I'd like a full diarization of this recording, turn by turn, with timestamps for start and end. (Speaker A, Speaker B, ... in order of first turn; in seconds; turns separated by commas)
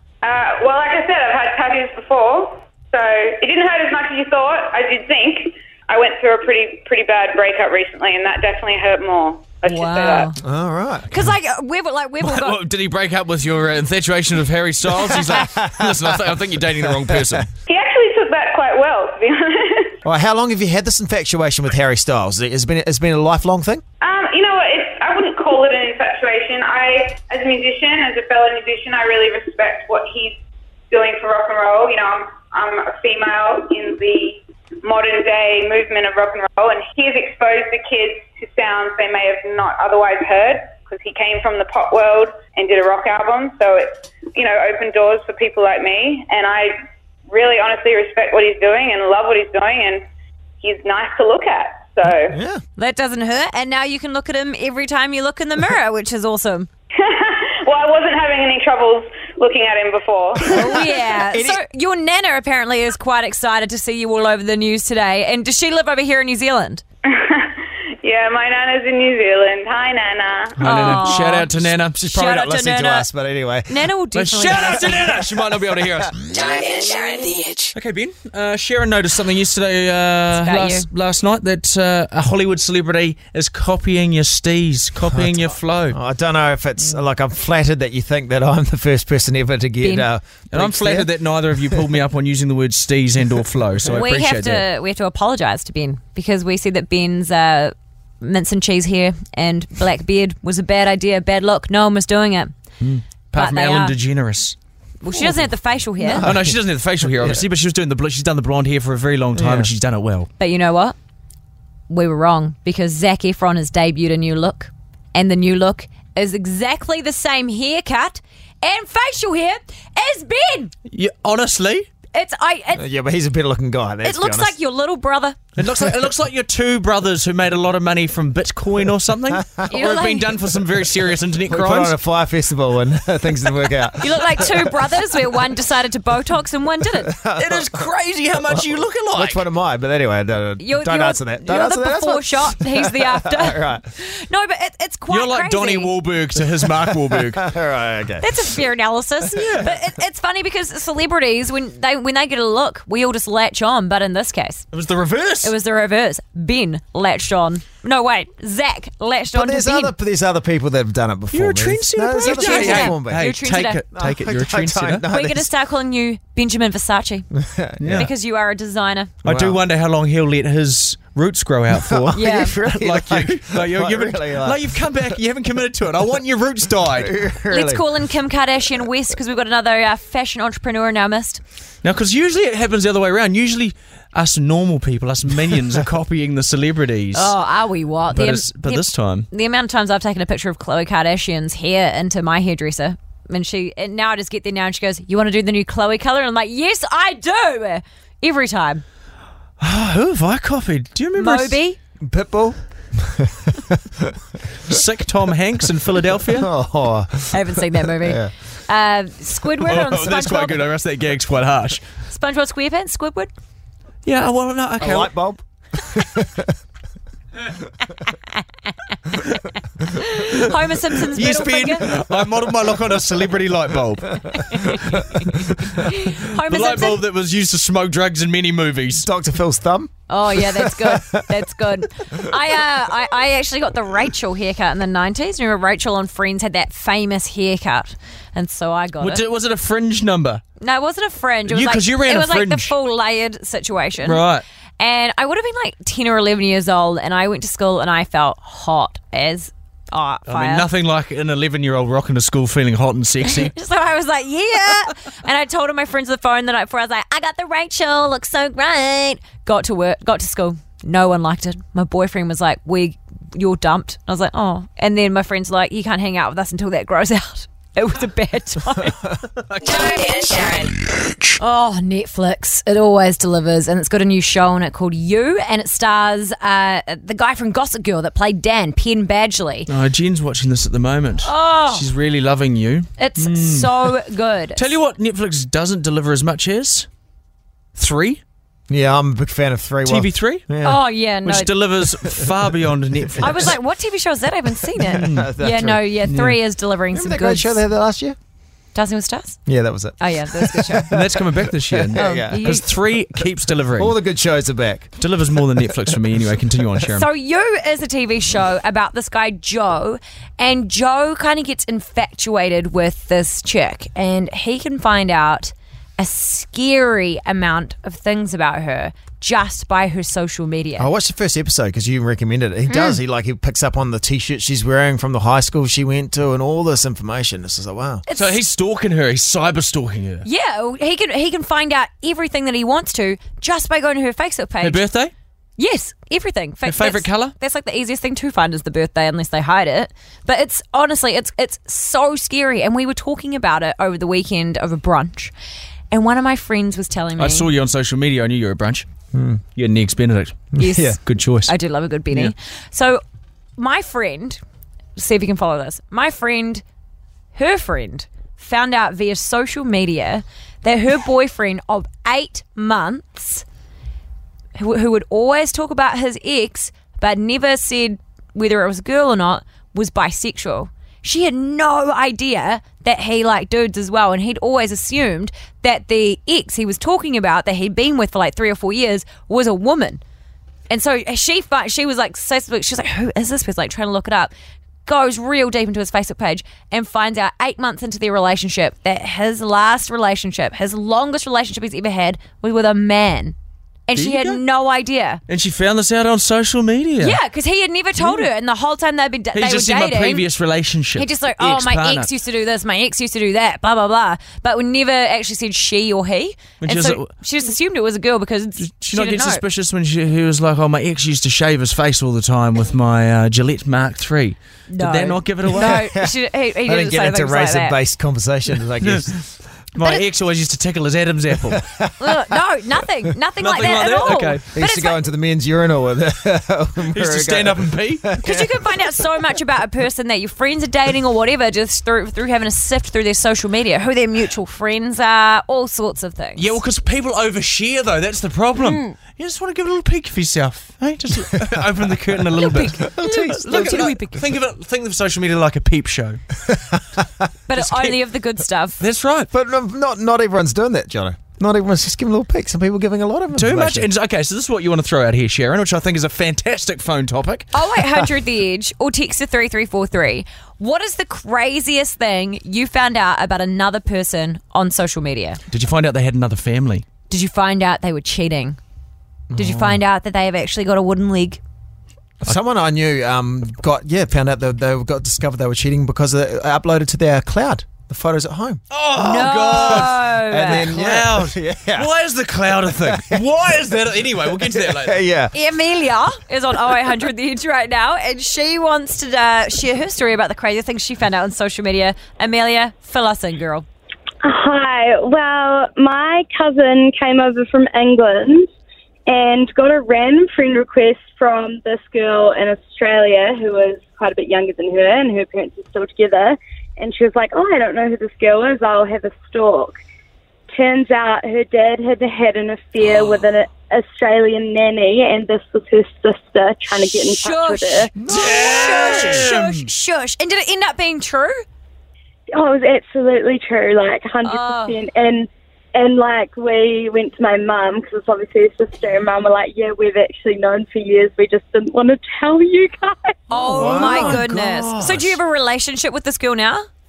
Speaker A: 0.2-10.3, Speaker B: 9.6-10.4, Speaker C: 10.4-11.3, Speaker B: 11.1-12.6, Speaker D: 12.2-17.5, Speaker C: 14.9-17.4, Speaker A: 17.7-19.9, Speaker C: 20.0-23.8, Speaker A: 24.0-30.4, Speaker A: 30.9-46.7, Speaker A: 47.3-50.0, Speaker A: 50.6-52.4, Speaker C: 52.3-52.6, Speaker B: 52.8-56.7, Speaker A: 57.0-60.6, Speaker B: 60.5-66.8, Speaker C: 60.7-61.6, Speaker A: 67.1-70.6, Speaker C: 70.6-73.9, Speaker D: 70.6-72.2, Speaker B: 70.6-71.5, Speaker B: 72.1-73.1, Speaker B: 73.7-75.0, Speaker D: 74.1-76.1, Speaker E: 76.3-77.7, Speaker D: 77.7-86.0, Speaker B: 80.4-80.9, Speaker C: 85.1-91.8, Speaker B: 89.8-90.1, Speaker D: 90.5-94.6, Speaker B: 93.9-102.5, Speaker D: 102.8-104.5, Speaker B: 103.3-103.9, Speaker B: 105.0-106.3, Speaker D: 105.2-105.4, Speaker C: 106.0-107.4, Speaker D: 106.2-110.3, Speaker C: 109.3-109.7, Speaker B: 110.4-110.9, Speaker B: 111.9-120.7, Speaker D: 120.9-121.9, Speaker B: 122.1-122.8, Speaker C: 122.8-124.5, Speaker B: 124.0-125.4, Speaker D: 125.6-131.9, Speaker B: 129.7-130.3, Speaker C: 131.5-134.7, Speaker B: 134.0-137.1, Speaker C: 137.1-137.9, Speaker D: 137.4-139.4, Speaker C: 138.5-143.8, Speaker B: 140.6-145.9, Speaker D: 145.1-147.4, Speaker C: 146.6-148.3, Speaker B: 148.2-154.7, Speaker C: 149.3-149.7, Speaker D: 149.3-149.7, Speaker D: 154.7-155.5, Speaker B: 155.4-159.9, Speaker C: 159.3-163.3, Speaker D: 161.3-165.0, Speaker B: 162.2-163.8, Speaker C: 163.9-165.5, Speaker B: 165.1-167.3, Speaker C: 167.3-168.1, Speaker D: 167.8-168.1, Speaker B: 167.9-169.1, Speaker C: 169.2-169.6, Speaker D: 169.2-177.1, Speaker C: 171.7-175.2, Speaker B: 172.1-172.6, Speaker C: 176.8-177.8, Speaker B: 177.5-181.4, Speaker D: 181.8-187.3, Speaker B: 187.1-198.8, Speaker D: 188.1-189.3, Speaker D: 199.6-201.6, Speaker B: 201.2-201.8, Speaker C: 202.0-204.8, Speaker D: 204.7-206.5, Speaker C: 206.2-208.3, Speaker B: 207.3-210.6, Speaker D: 209.6-211.8, Speaker B: 212.1-213.3, Speaker D: 214.0-215.1, Speaker C: 214.8-216.5, Speaker B: 219.9-221.9, Speaker D: 221.1-224.7, Speaker B: 224.5-225.3, Speaker B: 225.8-227.0, Speaker D: 226.3-229.1, Speaker C: 229.0-231.3, Speaker B: 230.1-239.2, Speaker D: 239.0-240.4, Speaker B: 240.6-244.2, Speaker D: 241.5-242.7, Speaker D: 244.0-244.4, Speaker B: 244.8-250.7, Speaker D: 250.3-253.5, Speaker B: 253.3-269.0, Speaker E: 269.6-270.8, Speaker B: 271.4-279.7, Speaker D: 279.7-284.0, Speaker B: 281.2-281.9, Speaker B: 283.0-284.7, Speaker D: 284.6-286.9, Speaker D: 287.8-288.2, Speaker C: 288.7-290.8, Speaker D: 289.8-290.5, Speaker B: 290.6-291.5, Speaker D: 291.2-293.5, Speaker C: 291.9-292.3, Speaker C: 293.1-293.5, Speaker B: 293.2-297.6, Speaker C: 294.7-295.8, Speaker D: 295.0-295.3, Speaker D: 296.1-296.4, Speaker C: 296.9-298.1, Speaker B: 298.7-300.9, Speaker C: 299.4-302.5, Speaker D: 300.9-303.9, Speaker B: 302.0-302.7, Speaker C: 303.7-305.9, Speaker D: 305.0-307.1, Speaker B: 306.9-320.9, Speaker C: 320.8-328.0, Speaker B: 322.7-323.0, Speaker B: 328.1-328.4, Speaker D: 328.1-330.2, Speaker B: 330.2-334.8, Speaker D: 334.6-335.1, Speaker B: 335.6-345.3, Speaker D: 336.6-337.3, Speaker B: 345.9-347.5, Speaker D: 347.2-348.9, Speaker C: 349.1-349.4, Speaker D: 349.6-351.5, Speaker B: 350.6-353.0, Speaker C: 350.6-351.0, Speaker B: 353.6-354.4, Speaker B: 355.0-356.6, Speaker B: 357.3-363.4, Speaker B: 364.6-380.0, Speaker B: 380.7-384.3, Speaker B: 384.9-393.4, Speaker B: 393.9-395.2, Speaker D: 393.9-394.4, Speaker D: 395.3-397.2, Speaker B: 397.0-400.2, Speaker D: 398.0-398.2, Speaker D: 399.3-402.1, Speaker B: 400.9-409.4, Speaker D: 406.6-407.1, Speaker D: 408.6-415.8, Speaker B: 414.7-417.8, Speaker C: 415.5-416.1, Speaker C: 416.6-419.2, Speaker D: 419.7-421.7, Speaker C: 421.6-422.3, Speaker B: 422.0-424.9, Speaker D: 423.4-424.4, Speaker C: 424.5-428.7, Speaker D: 426.9-428.1, Speaker B: 428.2-436.6, Speaker D: 436.4-446.2, Speaker B: 438.6-439.0, Speaker C: 441.4-441.9, Speaker B: 442.4-444.2, Speaker C: 442.6-444.0, Speaker C: 446.4-447.3, Speaker B: 447.5-448.8, Speaker D: 447.5-448.0, Speaker D: 448.8-449.3, Speaker C: 449.3-453.9, Speaker D: 453.3-457.5, Speaker B: 457.5-465.4, Speaker D: 465.5-466.9, Speaker B: 467.1-468.6, Speaker C: 469.3-469.8, Speaker B: 469.4-471.4, Speaker C: 472.2-478.6, Speaker D: 478.7-480.0, Speaker B: 479.0-480.7, Speaker C: 479.5-481.9, Speaker D: 480.6-485.0, Speaker C: 482.5-483.7, Speaker C: 484.3-485.3, Speaker B: 485.3-493.6, Speaker F: 494.2-498.5, Speaker F: 499.1-509.8, Speaker F: 510.5-517.9, Speaker B: 516.9-521.4, Speaker C: 518.0-519.3, Speaker D: 518.1-519.7, Speaker F: 522.3-533.2, Speaker B: 524.2-524.8, Speaker B: 533.3-536.7, Speaker C: 533.4-535.2, Speaker D: 533.5-534.2